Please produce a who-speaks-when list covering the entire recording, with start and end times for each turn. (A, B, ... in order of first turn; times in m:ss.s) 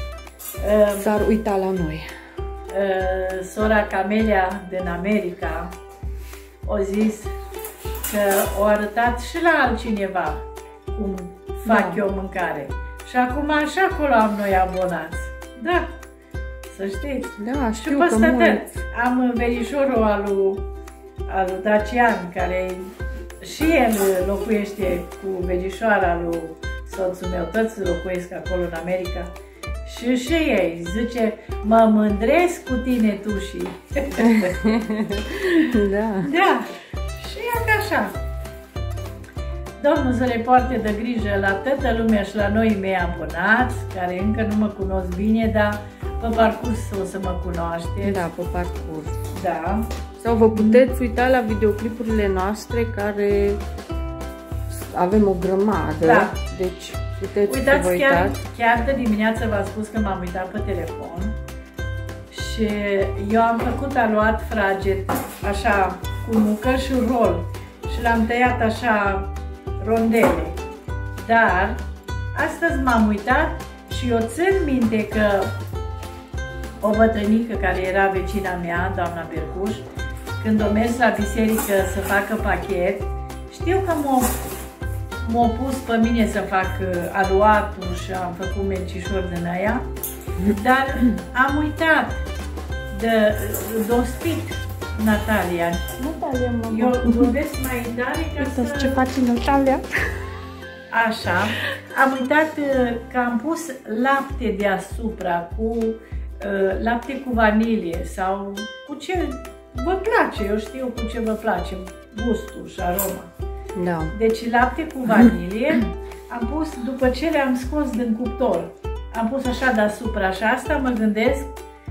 0:00.6-0:01.1 A
0:01.0-0:02.1 B
0:02.7-0:05.8 A
0:06.6-0:07.3 A
0:08.1-0:16.0 A
0:11.6-0:12.0 B
0:16.7-0:20.7 A
0:17.4-0:18.8 B
0:21.3-0:29.3 A
0:29.8-0:34.7 A
0:34.2-0:36.3 B
0:36.2-0:38.2 A
0:39.8-0:48.2 A
0:48.0-0:49.2 B
0:49.3-0:49.9 A
0:50.2-0:53.6 B
0:50.5-0:50.9 A
0:54.7-0:58.4 B
0:56.0-0:56.4 A
0:57.5-1:01.4 A
1:02.3-1:10.6 A
1:11.2-1:11.8 A
1:12.4-1:15.5 A
1:16.8-1:19.9 A
1:20.4-1:24.4 A
1:25.2-1:29.9 A
1:30.4-1:32.2 A
1:32.9-1:35.9 A
1:36.0-1:37.4 B
1:36.7-1:39.0 A
1:38.4-1:39.9 B
1:40.9-1:53.3 A
1:53.8-1:54.2 B
1:54.1-2:01.5 A